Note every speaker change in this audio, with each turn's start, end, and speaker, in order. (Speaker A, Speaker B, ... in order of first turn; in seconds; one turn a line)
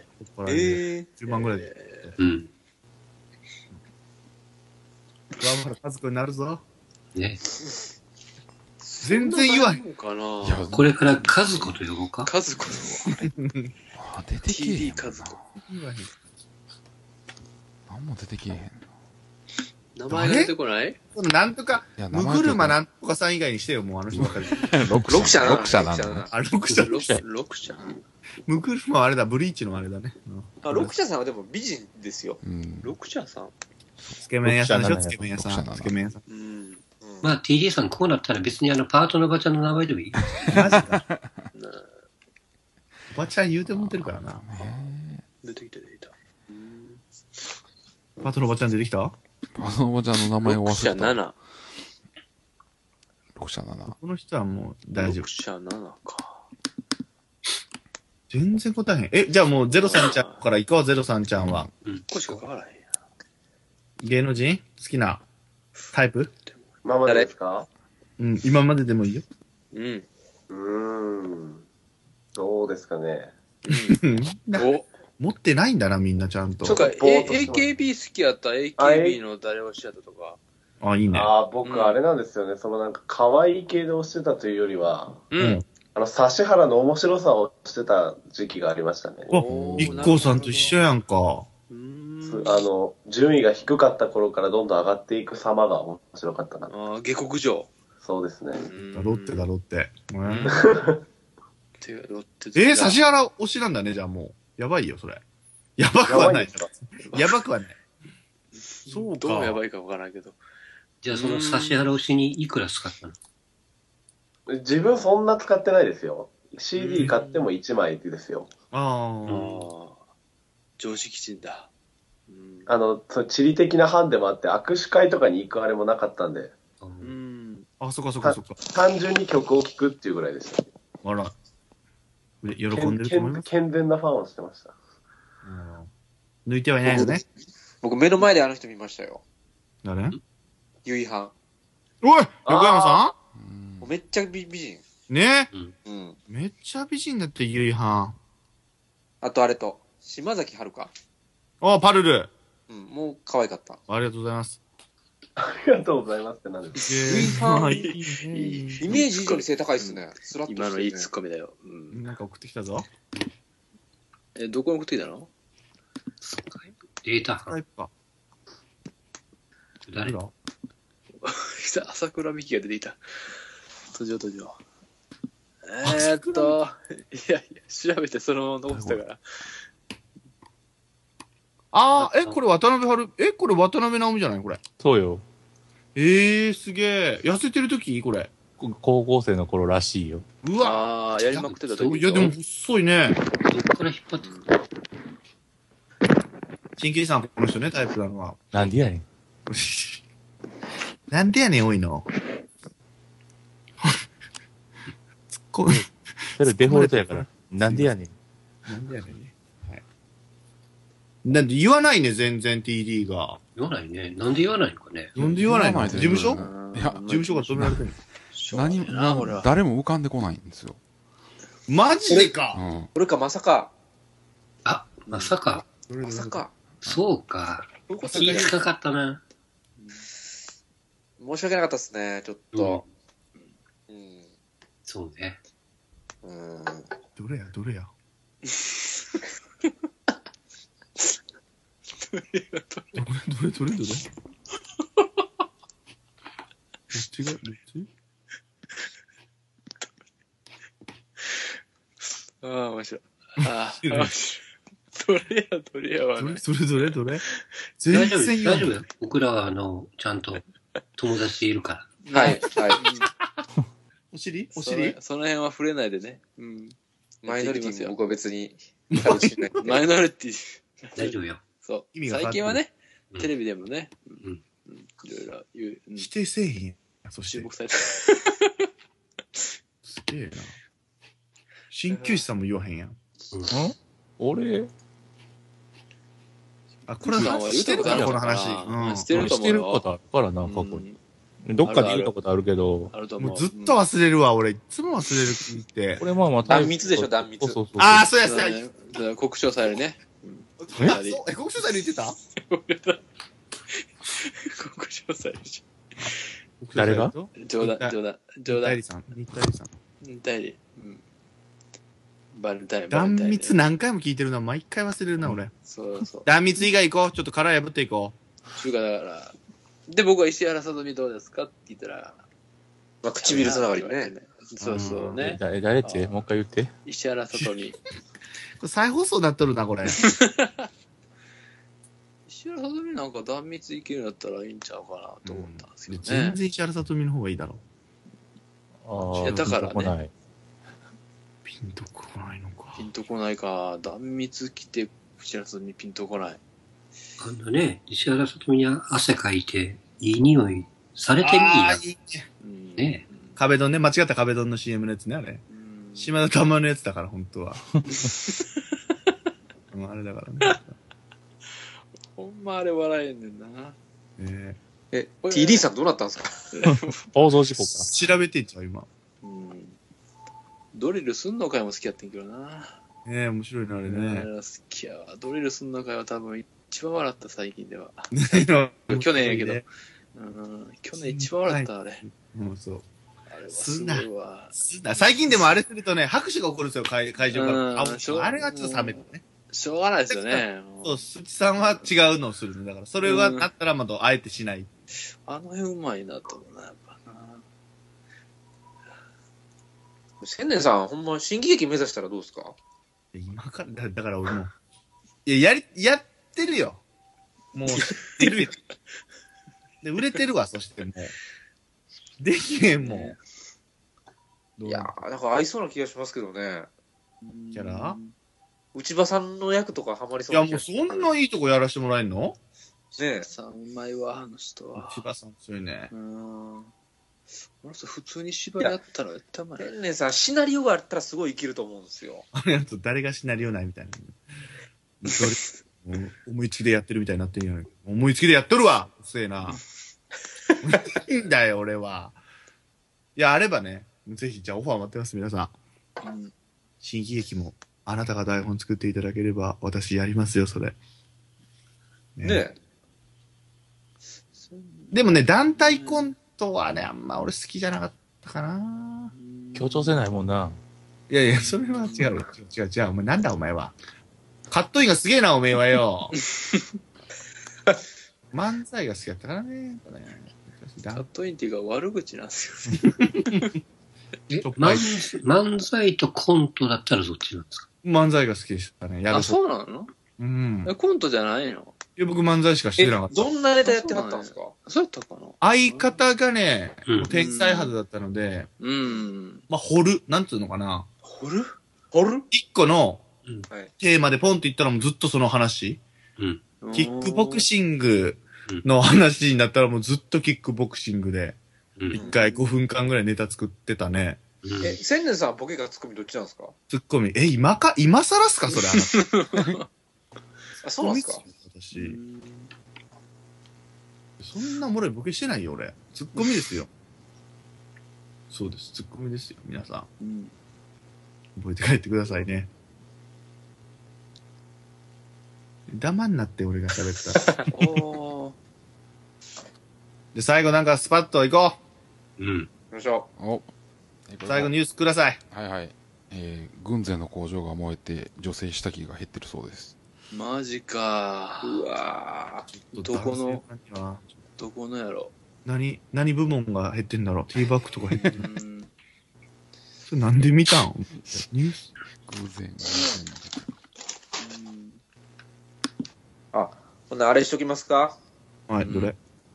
Speaker A: 0.2-2.2
Speaker B: 0.5-1.1
Speaker C: 1.3-2.1
Speaker D: 2.2-2.5
Speaker A: 5.4-6.6
Speaker D: 7.1-7.4
Speaker C: 8.8-10.7
Speaker A: 9.0-9.8
Speaker E: 10.4-11.7
Speaker D: 10.7-12.3
Speaker C: 12.2-13.1
Speaker E: 12.6-13.3
Speaker A: 13.3-13.7
Speaker E: 13.9-15.4
Speaker C: 14.5-15.4
Speaker A: 15.7-16.1
Speaker E: 17.9-18.9
Speaker C: 19.9-21.0
Speaker A: 20.1-20.5
Speaker A: 21.1-24.7
Speaker E: 21.9-22.8
Speaker E: 24.1-26.3
Speaker B: 25.1-26.3
Speaker A: 26.3-27.0
Speaker C: 26.7-28.0
Speaker F: 26.9-27.2
Speaker A: 28.4-30.9
Speaker B: 30.6-32.4
Speaker E: 32.4-32.9
Speaker C: 32.8-33.5
Speaker A: 34.2-36.2
Speaker F: 34.4-35.2
Speaker E: 35.2-36.0
Speaker C: 36.3-36.8
Speaker B: 37.0-37.2
Speaker D: 37.2-40.2
Speaker E: 40.3-41.4
Speaker A: 40.5-41.0
Speaker C: 41.5-41.9
Speaker A: 43.1-44.4
Speaker E: 43.6-45.2
Speaker C: 45.4-47.0
Speaker A: 48.2-49.1
Speaker E: 49.5-51.2
Speaker C: 50.4-51.4
Speaker E: 53.3-54.0
Speaker A: 53.9-55.2
Speaker C: 55.0-56.5
Speaker A: 58.3-61.7
Speaker C: 59.7-60.4
Speaker E: 61.3-61.7
Speaker D: 61.8-62.4
Speaker C: 62.1-62.9
Speaker A: 64.0-65.2
Speaker A: 65.9-66.3
Speaker G: 66.8-67.7
Speaker A: 68.2-69.2
Speaker C: 69.7-70.1
Speaker G: 70.5-71.6
Speaker G: 72.3-73.3
Speaker C: 73.6-74.9
Speaker A: 73.7-76.8
Speaker G: 76.6-77.8
Speaker C: 76.7-80.4
Speaker G: 78.8-79.2
Speaker A: 80.8-81.3
Speaker G: 81.1-85.3
Speaker C: 81.6-82.0
Speaker C: 85.3-85.6
Speaker A: 85.3-85.6
Speaker G: 85.9-90.2
Speaker A: 89.3-91.5
Speaker C: 89.4-90.8
Speaker C: 91.7-92.7
Speaker G: 92.2-96.7
Speaker C: 96.7-97.7
Speaker G: 98.0-98.7
Speaker C: 98.6-99.5
Speaker A: 98.9-100.6
Speaker C: 100.2-100.7
Speaker G: 100.5-101.0
Speaker C: 101.8-103.0
Speaker A: 102.5-105.2
Speaker A: 105.8-107.8
Speaker G: 106.1-106.7
Speaker C: 107.0-107.4
Speaker C: 108.6-110.4
Speaker A: 108.8-109.6
Speaker D: 111.0-113.2
Speaker C: 111.1-111.9
Speaker G: 114.5-118.5
Speaker C: 116.8-117.5
Speaker A: 118.7-119.5
Speaker D: 119.3-119.6
Speaker C: 119.3-120.0
Speaker C: 120.8-121.7
Speaker C: 122.3-122.7
Speaker G: 122.7-126.5
Speaker D: 126.8-127.1
Speaker C: 127.0-127.7
Speaker A: 127.8-128.6
Speaker G: 128.2-130.6
Speaker A: 131.0-131.3
Speaker A: 132.4-133.4
Speaker G: 132.7-134.7
Speaker A: 135.4-135.9
Speaker A: 136.4-137.2
Speaker B: 137.8-139.2
Speaker A: 139.8-140.2
Speaker B: 140.8-141.3
Speaker A: 142.0-143.1
Speaker G: 142.5-143.0
Speaker E: 143.3-143.9
Speaker B: 143.8-144.8
Speaker A: 145.1-145.5
Speaker B: 145.8-146.2
Speaker A: 146.3-148.2
Speaker B: 149.2-150.9
Speaker A: 151.6-152.3
Speaker B: 152.7-153.8
Speaker A: 153.9-154.6
Speaker G: 155.4-157.3
Speaker A: 156.8-159.0
Speaker B: 157.0-157.7
Speaker C: 157.1-162.1
Speaker B: 158.8-161.1
Speaker A: 161.9-162.8
Speaker C: 164.3-165.3
Speaker D: 166.2-167.5
Speaker A: 167.5-167.9
Speaker D: 169.9-170.2
Speaker A: 170.0-170.3
Speaker C: 171.2-173.0
Speaker C: 173.9-174.6
Speaker C: 175.7-179.5
Speaker A: 175.8-176.6
Speaker A: 178.7-179.0
Speaker A: 181.7-184.6
Speaker D: 181.9-182.4
Speaker F: 184.8-185.2
Speaker A: 185.9-188.3
Speaker F: 188.6-190.2
Speaker A: 190.4-190.9
Speaker C: 190.6-192.3
Speaker D: 191.3-192.3
Speaker A: 191.7-193.2
Speaker D: 193.4-194.4
Speaker C: 194.2-194.5
Speaker A: 196.8-198.4
Speaker F: 198.5-199.0
Speaker A: 199.5-200.0
Speaker A: 201.1-202.1
Speaker A: 205.4-207.9
Speaker F: 206.4-208.1
Speaker A: 208.7-209.8
Speaker A: 211.2-213.4
Speaker D: 213.6-215.1
Speaker A: 215.2-216.4
Speaker E: 215.2-217.8
Speaker C: 216.1-217.7
Speaker A: 217.1-217.9
Speaker C: 218.3-219.5
Speaker E: 218.5-220.8
Speaker A: 221.7-222.6
Speaker E: 222.5-222.9
Speaker B: 222.9-223.7
Speaker D: 224.6-225.7
Speaker A: 225.9-226.4
Speaker B: 226.0-226.5
Speaker D: 226.8-229.2
Speaker B: 227.9-228.6
Speaker A: 228.0-228.5
Speaker C: 229.8-230.1
Speaker B: 231.2-232.8
Speaker D: 232.5-232.9
Speaker B: 233.9-234.3
Speaker D: 234.8-235.4
Speaker B: 236.2-236.9
Speaker A: 237.2-237.9
Speaker C: 242.0-243.0
Speaker A: 242.9-244.1
Speaker A: 246.9-247.9
Speaker C: 252.4-257.3
Speaker A: 253.8-254.1
Speaker A: 256.2-257.2
Speaker A: 257.8-258.8
Speaker D: 257.9-260.4
Speaker D: 261.0-262.0
Speaker C: 262.0-263.1
Speaker B: 262.1-262.9
Speaker A: 264.1-265.0
Speaker C: 264.5-268.2
Speaker B: 267.2-269.9
Speaker A: 268.9-269.3
Speaker C: 269.1-276.1
Speaker D: 270.9-271.4
Speaker A: 271.9-272.6
Speaker A: 276.0-277.5
Speaker C: 277.3-278.6
Speaker A: 279.8-280.5
Speaker A: 281.7-283.0
Speaker C: 281.9-282.2
Speaker F: 283.5-284.7
Speaker A: 286.9-289.3
Speaker C: 287.0-289.9
Speaker F: 287.1-288.2
Speaker F: 289.1-290.9
Speaker C: 290.4-291.0
Speaker F: 291.4-292.9
Speaker C: 291.6-292.1
Speaker C: 292.9-293.8
Speaker A: 293.2-296.0
Speaker F: 296.0-298.1
Speaker B: 296.4-297.6
Speaker A: 297.8-298.6
Speaker C: 298.2-301.2
Speaker A: 300.6-302.1
Speaker C: 302.3-303.0
Speaker C: 303.7-305.6
Speaker A: 306.0-309.7
Speaker F: 306.7-307.1
Speaker C: 307.4-308.8
Speaker C: 310.0-311.0
Speaker C: 312.3-313.6
Speaker A: 312.9-315.5
Speaker C: 315.6-316.3
Speaker A: 316.2-318.1
Speaker C: 318.6-319.3
Speaker C: 319.9-322.2
Speaker B: 323.0-324.1
Speaker C: 323.2-326.2
Speaker A: 324.6-325.2
Speaker F: 325.2-326.7
Speaker C: 326.9-327.8
Speaker A: 328.6-330.0
Speaker C: 329.9-330.7
Speaker C: 332.3-336.4
Speaker A: 335.2-337.6
Speaker F: 338.8-340.1
Speaker C: 339.1-339.9
Speaker A: 341.4-342.8
Speaker C: 342.8-346.4
Speaker D: 347.2-351.8
Speaker A: 351.2-352.3
Speaker C: 352.4-353.4
Speaker D: 352.8-353.0
Speaker A: 353.4-355.4
Speaker C: 355.5-356.1
Speaker A: 355.9-357.6
Speaker A: 359.7-360.8
Speaker C: 362.0-363.8
Speaker A: 364.2-364.6
Speaker B: 364.9-366.5
Speaker C: 365.2-365.7
Speaker C: 366.5-367.8
Speaker F: 366.6-367.9
Speaker A: 367.9-368.9
Speaker C: 369.2-369.8
Speaker C: 370.7-372.8
Speaker A: 373.1-374.3
Speaker C: 373.8-382.0
Speaker A: 378.1-379.6
Speaker A: 381.0-382.8
Speaker C: 383.3-384.6
Speaker A: 383.5-389.2
Speaker C: 387.3-391.9
Speaker A: 390.1-394.7
Speaker C: 393.0-393.5
Speaker C: 395.2-397.4
Speaker B: 400.2-402.5
Speaker A: 403.1-404.5
Speaker A: 405.2-406.8
Speaker A: 407.5-408.5
Speaker C: 407.8-408.5
Speaker A: 409.8-411.1
Speaker A: 412.2-413.2
Speaker C: 412.8-413.2
Speaker A: 414.6-414.9
Speaker B: 414.6-416.7
Speaker C: 417.2-418.1
Speaker A: 417.5-418.0
Speaker B: 418.7-421.1
Speaker A: 420.3-422.4
Speaker B: 423.0-423.3
Speaker C: 423.0-425.0
Speaker A: 424.7-425.9
Speaker C: 425.9-426.7
Speaker C: 427.6-429.7
Speaker B: 429.6-432.3
Speaker A: 432.3-434.2
Speaker A: 435.0-439.6
Speaker A: 440.6-442.2
Speaker A: 443.1-445.5
Speaker C: 446.0-446.3
Speaker A: 446.8-450.7
Speaker A: 452.2-452.4
Speaker B: 452.2-452.6
Speaker C: 454.3-456.1
Speaker A: 454.9-459.1
Speaker C: 459.1-460.1
Speaker F: 459.6-460.6
Speaker A: 461.1-463.7
Speaker C: 461.3-462.2
Speaker A: 464.5-466.1
Speaker A: 468.3-471.1
Speaker C: 470.9-473.5
Speaker A: 472.7-473.6
Speaker A: 474.3-475.0
Speaker D: 474.3-477.6
Speaker A: 477.8-479.4
Speaker C: 479.1-479.9
Speaker A: 480.2-480.7
Speaker C: 480.6-481.8
Speaker A: 482.0-483.3
Speaker B: 482.8-484.5
Speaker C: 483.6-486.0
Speaker A: 485.4-488.5
Speaker C: 487.1-487.7
Speaker C: 488.6-489.4
Speaker A: 489.5-490.9
Speaker C: 491.0-491.6
Speaker B: 491.9-492.2
Speaker A: 492.3-493.0
Speaker A: 493.8-495.8
Speaker C: 496.6-497.5
Speaker A: 496.7-501.4
Speaker D: 501.8-502.0
Speaker A: 501.9-504.2
Speaker C: 502.1-502.5
Speaker D: 504.4-504.8
Speaker B: 504.6-506.5
Speaker A: 506.7-509.1
Speaker C: 508.5-509.7
Speaker B: 510.6-511.2
Speaker A: 510.8-512.0
Speaker C: 511.7-512.5
Speaker A: 514.2-516.7
Speaker A: 518.3-519.9
Speaker C: 520.0-520.3
Speaker A: 521.4-522.5
Speaker A: 525.7-527.3
Speaker C: 527.5-528.4
Speaker A: 530.1-531.6
Speaker D: 532.2-532.5
Speaker B: 532.7-533.1
Speaker E: 533.2-533.5
Speaker E: 534.1-534.5
Speaker A: 534.2-535.2
Speaker E: 535.3-539.7
Speaker C: 540.1-541.6
Speaker B: 541.4-542.5
Speaker A: 542.5-544.0
Speaker C: 542.7-543.4
Speaker C: 544.4-545.1
Speaker A: 545.4-548.3
Speaker C: 547.9-548.7
Speaker A: 549.9-551.7
Speaker E: 551.0-551.2
Speaker E: 552.0-553.3
Speaker C: 554.2-554.8
Speaker B: 556.3-558.0
Speaker A: 558.5-559.0
Speaker C: 558.6-558.9